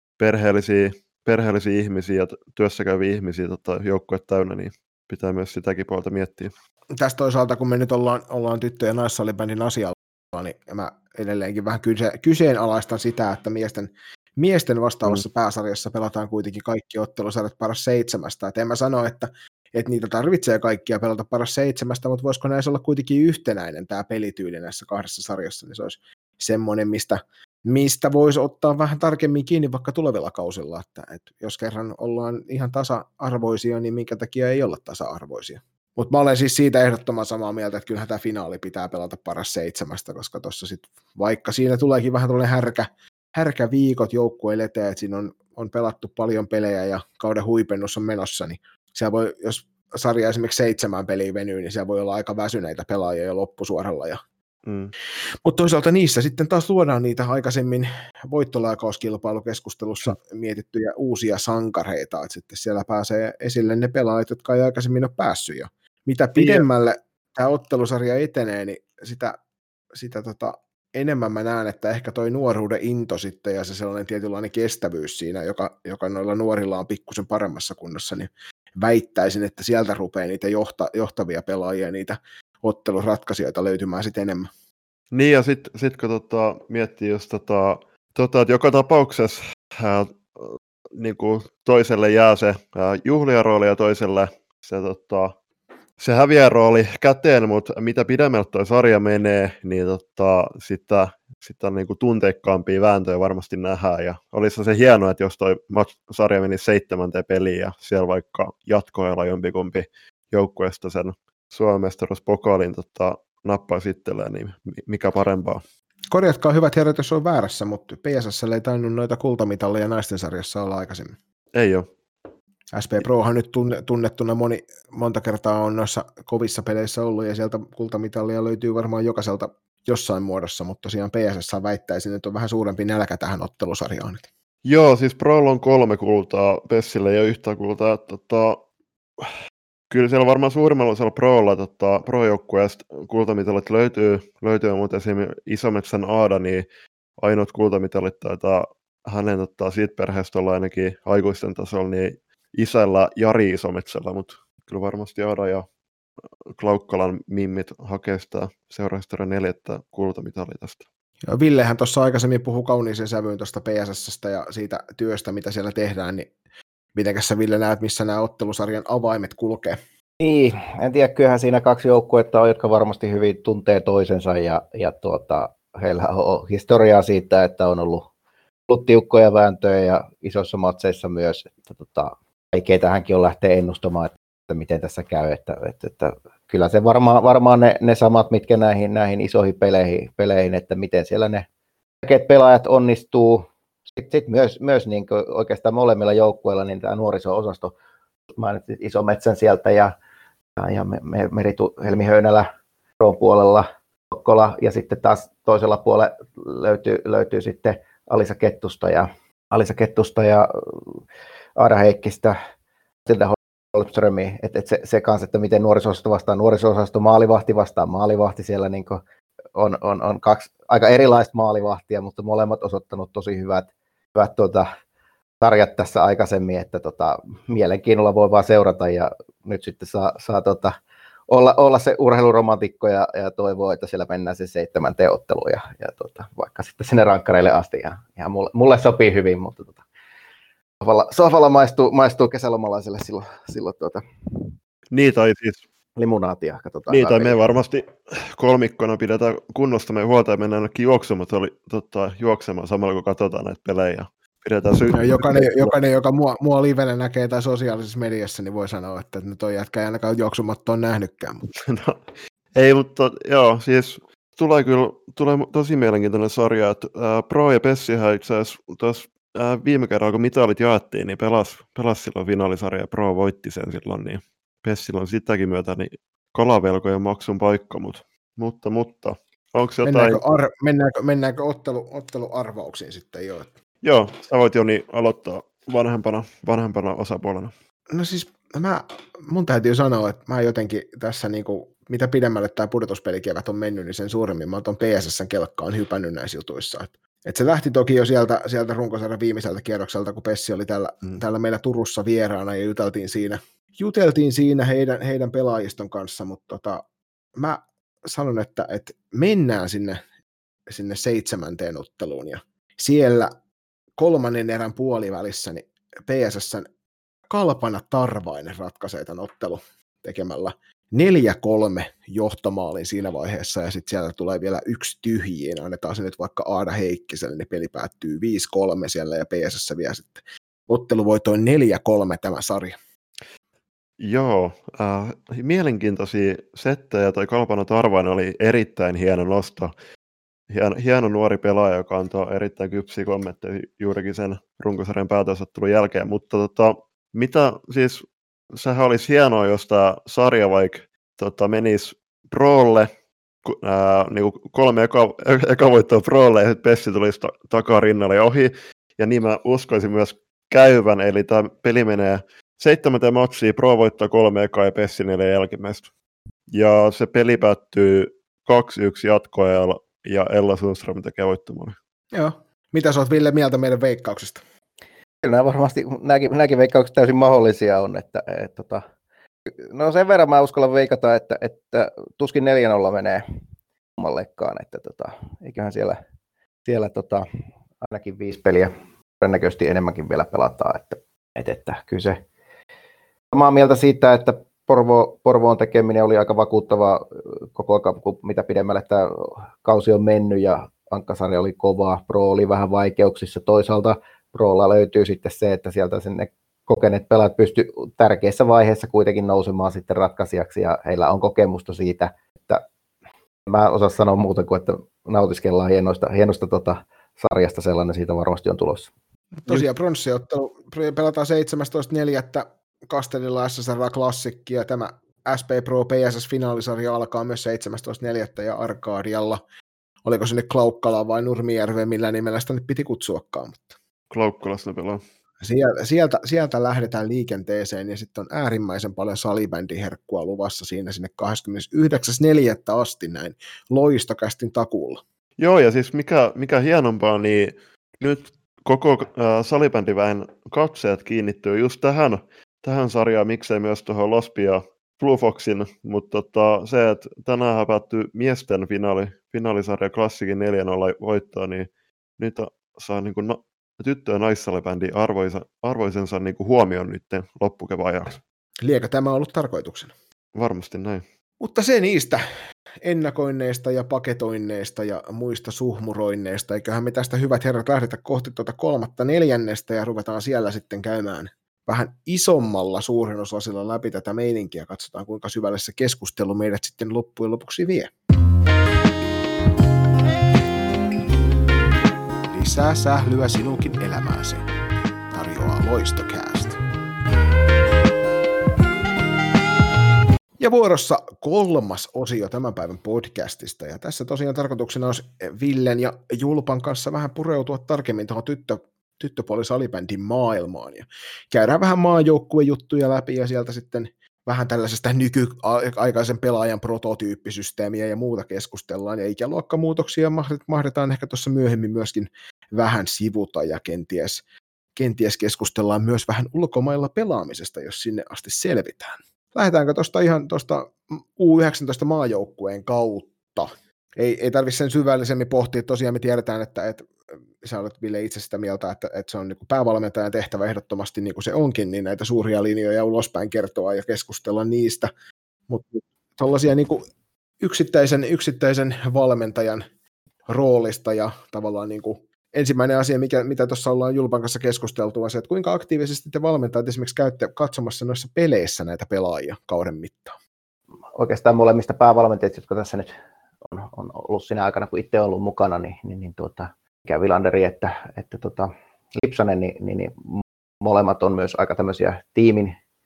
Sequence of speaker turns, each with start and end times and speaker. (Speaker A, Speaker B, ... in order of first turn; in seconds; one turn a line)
Speaker A: 0.2-6.5
Speaker B: 6.9-54.2
Speaker A: 54.6-54.9
Speaker B: 55.4-69.4
Speaker A: 66.4-66.6
Speaker B: 69.9-84.5
Speaker A: 85.1-95.3
Speaker A: 96.0-115.6
Speaker B: 116.1-121.2
Speaker A: 121.5-121.9
Speaker B: 122.7-134.3
Speaker A: 134.6-138.6
Speaker A: 139.9-146.7
Speaker A: 147.2-155.7
Speaker A: 156.5-160.8
Speaker B: 161.2-166.3
Speaker B: 166.9-169.8
Speaker C: 170.2-178.1
Speaker C: 178.7-191.5
Speaker C: 192.0-197.7
Speaker C: 198.3-199.9
Speaker C: 200.6-202.5
Speaker C: 203.0-211.0
Speaker C: 211.6-212.3
Speaker C: 213.1-219.0
Speaker C: 219.6-224.7
Speaker C: 225.4-230.7
Speaker C: 231.3-239.8
Speaker C: 240.8-244.5
Speaker A: 244.9-245.6
Speaker C: 245.9-247.4
Speaker A: 246.9-255.7
Speaker B: 254.9-261.4
Speaker A: 261.5-262.0
Speaker A: 262.5-280.2
Speaker B: 279.8-283.5
Speaker A: 283.8-287.5
Speaker B: 287.9-306.8
Speaker B: 307.4-310.0
Speaker B: 310.7-313.3
Speaker B: 314.0-316.7
Speaker B: 317.3-332.7
Speaker A: 334.0-339.7
Speaker A: 340.5-352.9
Speaker A: 353.4-365.9
Speaker A: 366.5-371.8
Speaker B: 372.1-374.4
Speaker C: 375.2-378.8
Speaker C: 379.6-383.2
Speaker C: 384.0-386.0
Speaker C: 386.6-387.2
Speaker C: 387.8-392.2
Speaker C: 393.3-412.6
Speaker C: 413.5-418.9
Speaker B: 419.4-429.4
Speaker B: 430.0-433.8
Speaker A: 434.1-435.0
Speaker B: 435.4-445.0
Speaker A: 445.4-461.7
Speaker A: 462.2-468.2
Speaker B: 468.6-469.9
Speaker A: 470.3-471.0
Speaker B: 471.4-472.2
Speaker B: 472.8-487.9
Speaker B: 492.3-494.5
Speaker B: 495.1-496.6
Speaker B: 500.4-524.2
Speaker B: 524.7-544.9
Speaker B: 545.5-546.8
Speaker B: 547.4-549.6
Speaker B: 550.2-560.2
Speaker C: 560.9-562.9
Speaker C: 563.4-572.5